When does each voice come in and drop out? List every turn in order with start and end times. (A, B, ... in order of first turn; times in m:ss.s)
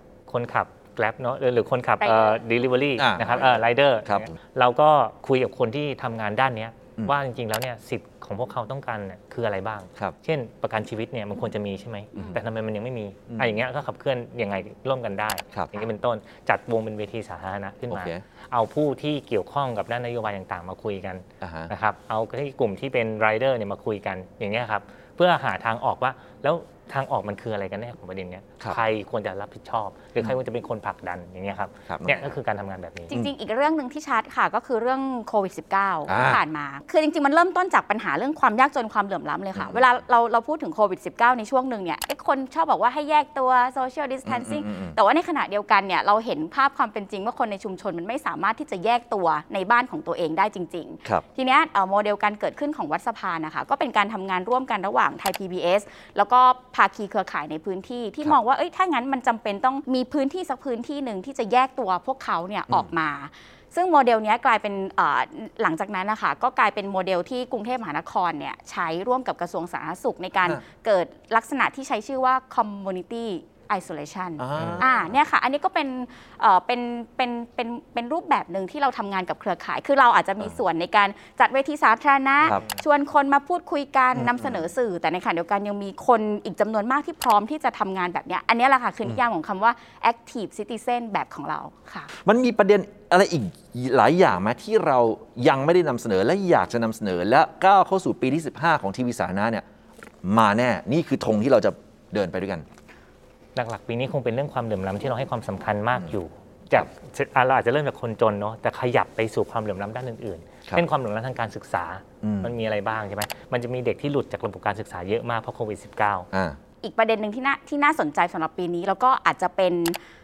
0:00.3-0:33.1 A
0:02.0-0:02.4 B
0:03.0-0:04.3 C
0:13.3-0:13.6 C
0:15.5-0:15.9 C
0:17.9-0:18.2 C
0:21.4-0:21.7 C
0:31.9-0:32.3 C
0:33.1-1:32.1 B
0:36.1-0:36.4 C
0:39.5-0:39.8 C
0:44.2-0:45.0 C
1:14.4-1:14.8 C
1:24.1-1:24.7 C
1:32.2-1:39.6 C
1:40.2-1:42.6 C
1:43.6-1:56.3 A
1:52.2-1:52.5 C
1:56.3-1:56.6 C
1:56.8-1:59.9 B